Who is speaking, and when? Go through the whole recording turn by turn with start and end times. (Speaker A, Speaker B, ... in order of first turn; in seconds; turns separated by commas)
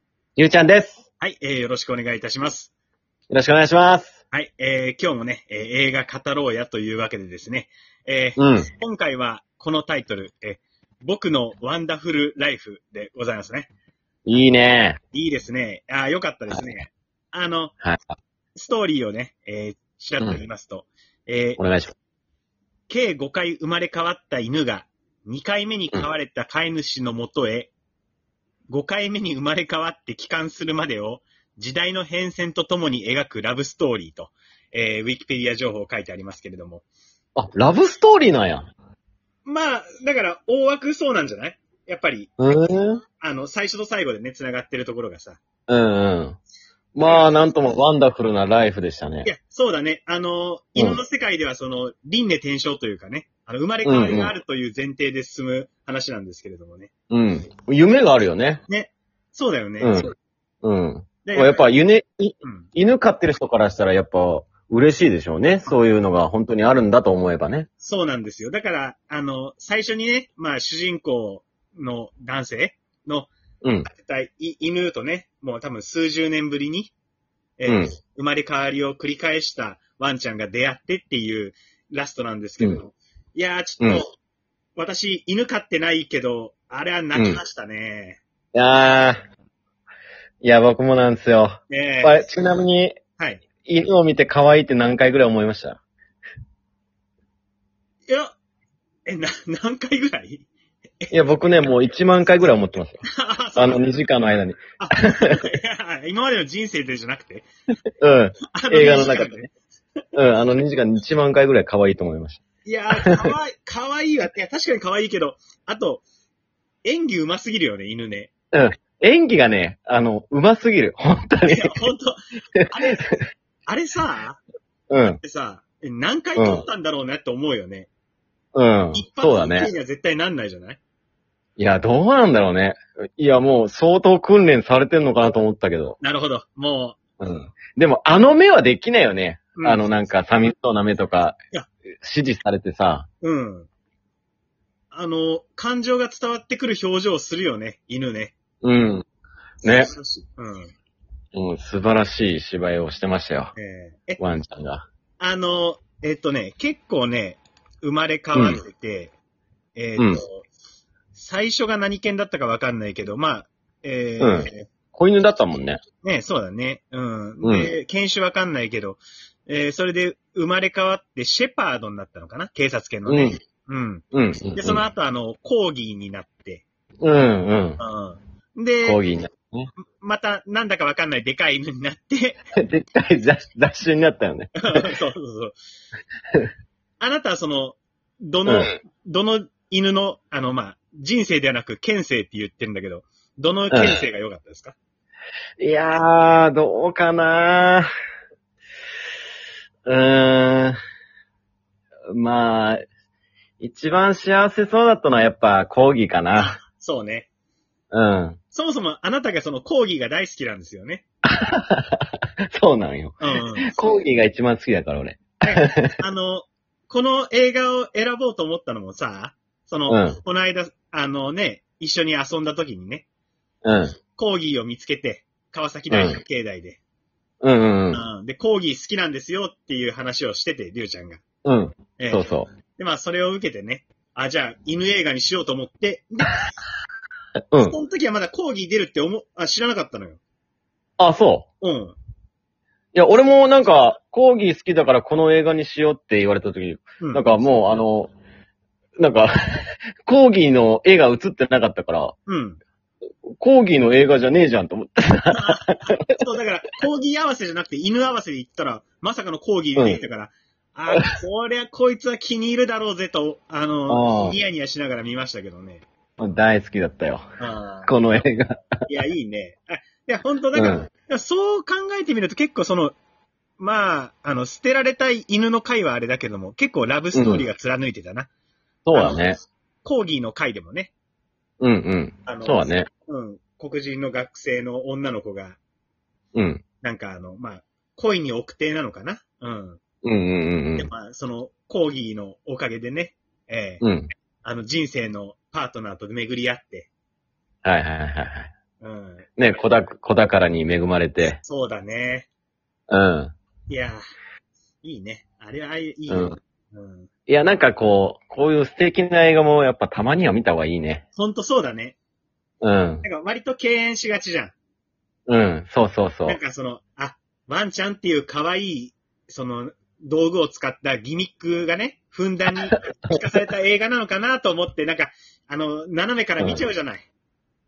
Speaker A: 0.3-1.1, Speaker B: 1.2-2.7, Speaker A: 3.3-4.2, Speaker B: 4.3-13.7, Speaker A: 8.4-8.7, Speaker A: 14.2-15.0, Speaker B: 15.1-17.7, Speaker B: 18.5-21.6, Speaker A: 21.6-21.9, Speaker B: 22.9-27.7, Speaker B: 28.7-36.9, Speaker A: 37.3-38.7, Speaker B: 39.4-42.3, Speaker A: 42.4-43.0, Speaker B: 43.2-45.4, Speaker A: 45.7-46.4, Speaker A: 46.9-49.3, Speaker B: 47.0-47.7, Speaker B: 49.2-56.9, Speaker A: 53.8-54.4, Speaker A: 57.1-58.6, Speaker B: 58.7-60.1, Speaker A: 59.8-67.7, Speaker B: 61.2-61.8, Speaker B: 67.8-73.3, Speaker A: 73.6-73.9, Speaker B: 73.9-76.9, Speaker B: 77.6-84.1, Speaker A: 77.7-78.0, Speaker B: 84.8-88.2, Speaker A: 87.1-87.4, Speaker A: 88.5-89.2, Speaker A: 90.4-92.9, Speaker B: 91.7-92.2, Speaker A: 93.6-95.8, Speaker B: 98.1-98.3, Speaker B: 99.0-100.5, Speaker B: 101.0-101.4, Speaker A: 101.1-103.0, Speaker B: 103.0-103.9, Speaker A: 103.5-105.4, Speaker B: 104.8-107.5, Speaker A: 108.0-109.5, Speaker B: 108.5-109.5, Speaker A: 110.1-112.4, Speaker B: 112.6-116.0, Speaker A: 113.0-113.3, Speaker B: 116.8-118.3, Speaker A: 118.5-121.7, Speaker B: 121.5-122.2, Speaker A: 122.5-123.2, Speaker B: 122.7-123.0, Speaker B: 123.7-124.4, Speaker A: 124.9-125.2, Speaker B: 125.0-127.9, Speaker A: 126.4-126.7, Speaker A: 128.5-129.7, Speaker B: 128.9-130.8, Speaker A: 131.6-136.0, Speaker B: 136.0-137.0, Speaker A: 137.2-141.3, Speaker B: 139.5-139.8, Speaker A: 142.0-143.1, Speaker B: 143.2-143.7, Speaker B: 144.9-148.3, Speaker A: 148.6-149.0, Speaker A: 149.6-149.9, Speaker B: 149.6-150.7, Speaker A: 151.3-153.5, Speaker B: 153.5-154.2, Speaker A: 154.2-154.8, Speaker B: 155.2-159.1, Speaker A: 158.3-158.6, Speaker B: 159.8-160.5, Speaker A: 160.0-160.2, Speaker B: 161.1-164.7, Speaker A: 164.2-165.8, Speaker B: 166.0-176.6, Speaker A: 167.4-167.7, Speaker A: 173.1-173.4, Speaker A: 174.1-174.8, Speaker A: 177.0-177.8, Speaker B: 177.8-179.0, Speaker A: 178.8-179.7, Speaker B: 179.9-182.4, Speaker A: 182.6-184.8, Speaker B: 184.7-185.6, Speaker B: 187.0-194.7, Speaker A: 188.4-188.7, Speaker A: 193.7-194.0, Speaker A: 195.6-197.9, Speaker A: 199.8-200.8, Speaker A: 202.1-202.8, Speaker A: 203.6-206.6, Speaker B: 206.3-207.3, Speaker A: 207.9-208.4, Speaker B: 208.5-211.0, Speaker A: 211.2-215.9, Speaker B: 213.2-214.0, Speaker B: 215.4-223.0, Speaker A: 219.9-220.2, Speaker A: 223.6-224.0, Speaker B: 224.1-226.8, Speaker A: 225.9-226.2, Speaker A: 227.4-228.0, Speaker B: 227.9-231.2, Speaker A: 231.4-232.5, Speaker B: 232.0-236.5, Speaker A: 237.5-237.8, Speaker B: 237.6-240.2, Speaker A: 241.0-241.4, Speaker B: 241.6-241.9, Speaker A: 242.9-248.1, Speaker B: 247.0-247.6, Speaker A: 249.0-252.2, Speaker B: 252.2-252.6, Speaker A: 253.3-256.1, Speaker B: 255.3-265.8, Speaker A: 259.8-260.0, Speaker A: 263.9-264.4, Speaker A: 266.2-267.2, Speaker B: 267.4-267.9, Speaker A: 267.8-268.9, Speaker B: 268.9-272.9, Speaker A: 270.5-270.9, Speaker B: 273.6-278.3, Speaker A: 277.1-277.4, Speaker A: 278.9-279.4, Speaker B: 278.9-280.9, Speaker A: 281.6-282.9, Speaker B: 282.2-285.6, Speaker A: 286.3-286.6, Speaker B: 286.8-289.8, Speaker A: 290.0-290.9, Speaker B: 290.8-293.8, Speaker A: 293.8-294.1, Speaker B: 294.4-296.9, Speaker A: 297.6-298.5, Speaker B: 298.8-299.3, Speaker A: 299.4-301.4, Speaker B: 301.2-302.3, Speaker A: 302.9-303.3, Speaker B: 303.7-304.0, Speaker B: 304.8-307.1, Speaker A: 306.1-306.4, Speaker A: 307.3-311.0, Speaker B: 311.1-311.9, Speaker A: 312.6-313.0, Speaker B: 313.0-314.5, Speaker A: 315.3-316.4, Speaker B: 316.2-327.1, Speaker A: 326.4-326.6